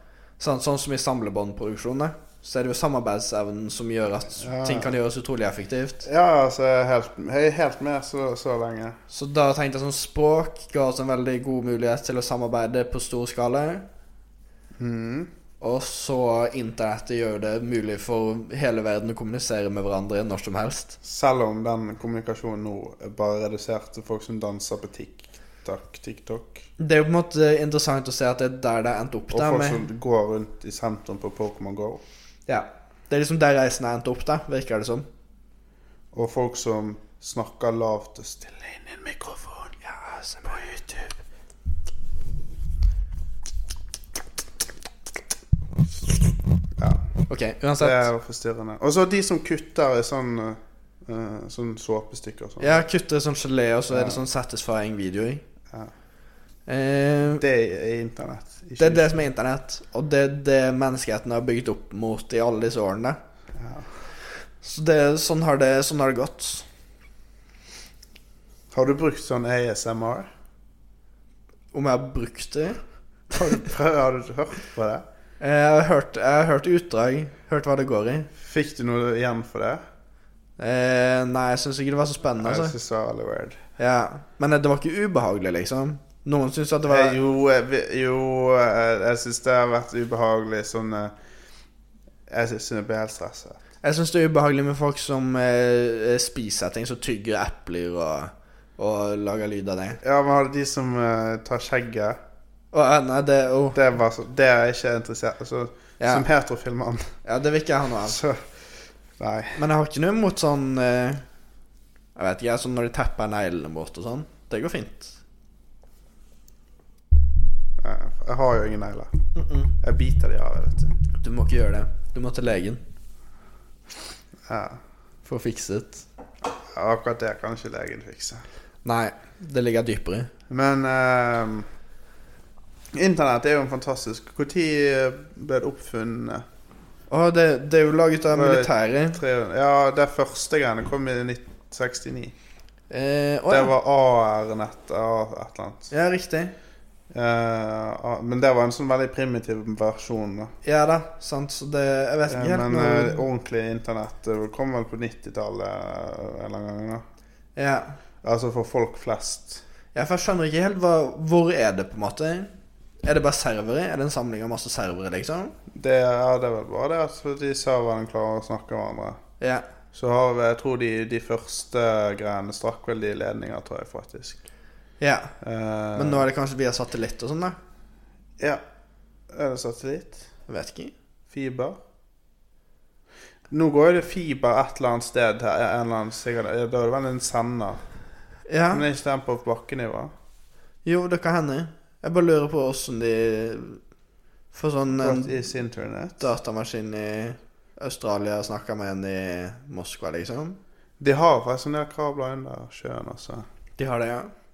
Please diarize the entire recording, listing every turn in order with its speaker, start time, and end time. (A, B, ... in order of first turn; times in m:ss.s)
0:00.4-0:06.0 A
0:04.4-0:04.9 B
0:06.0-0:09.0 B
0:09.1-0:13.8 A
0:14.8-0:15.3 B
0:15.6-0:21.0 A
0:21.0-0:26.6 B
0:26.8-0:29.8 A
0:29.3-0:32.0 B
0:32.5-0:35.0 A
0:36.1-0:39.7 B
0:39.8-0:40.6 A
0:40.5-0:41.1 B
0:46.8-0:47.1 B
0:47.3-0:48.1 A
0:47.8-0:52.8 B
0:52.6-0:55.4 A
0:53.9-0:54.2 B
0:56.7-0:57.4 A
0:57.4-0:59.2 B
0:58.8-1:03.2 A
1:03.5-1:03.9 B
1:04.6-1:06.6 A
1:08.7-1:10.3 B
1:11.7-1:12.8 A
1:13.3-1:15.0 B
1:15.4-1:18.3 A
1:18.4-1:19.8 B
1:20.6-1:22.7 A
1:22.4-1:23.6 B
1:23.8-1:27.2 A
1:26.9-1:31.1 B
1:32.3-1:33.6 B
1:33.8-1:40.0 A
1:40.0-1:42.2 B
1:42.7-1:43.8 A
1:43.7-1:47.1 B
1:46.0-1:46.2 A
1:47.2-1:48.2 A
1:48.0-1:48.5 B
1:49.2-1:49.6 B
1:49.6-1:51.2 A
1:52.1-1:55.2 A
1:57.8-1:59.2 B
1:59.3-1:59.7 A
1:59.8-2:00.9 B
2:01.2-2:02.8 A
2:04.4-2:04.8 B
2:05.2-2:06.0 A
2:06.7-2:08.4 B
2:08.8-2:10.3 A
2:10.5-2:11.7 B
2:12.9-2:16.4 B
2:17.1-2:19.2 A
2:18.3-2:22.3 B
2:22.9-2:23.7 A
2:23.5-2:25.9 B
2:25.9-2:26.5 A
2:27.1-2:30.5 B
2:30.6-2:33.2 A
2:32.3-2:37.0 B
2:37.6-2:38.0 A
2:38.2-2:39.6 B
2:39.9-2:42.5 A
2:43.0-2:45.5 A
2:45.7-2:49.2 B
2:49.4-2:49.6 A
2:49.9-2:54.4 B
2:55.0-2:55.3 A
2:55.4-2:56.2 B
2:55.9-2:57.6 A
2:59.3-3:00.2 B
3:00.5-3:00.9 A
3:01.3-3:01.8 B
3:03.5-3:07.8 B
3:08.5-3:08.8 A
3:08.7-3:10.1 B
3:10.8-3:13.8 A
3:14.5-3:15.4 A
3:15.0-3:16.2 B
3:16.2-3:20.6 A
3:21.0-3:23.4 B
3:23.8-3:24.3 A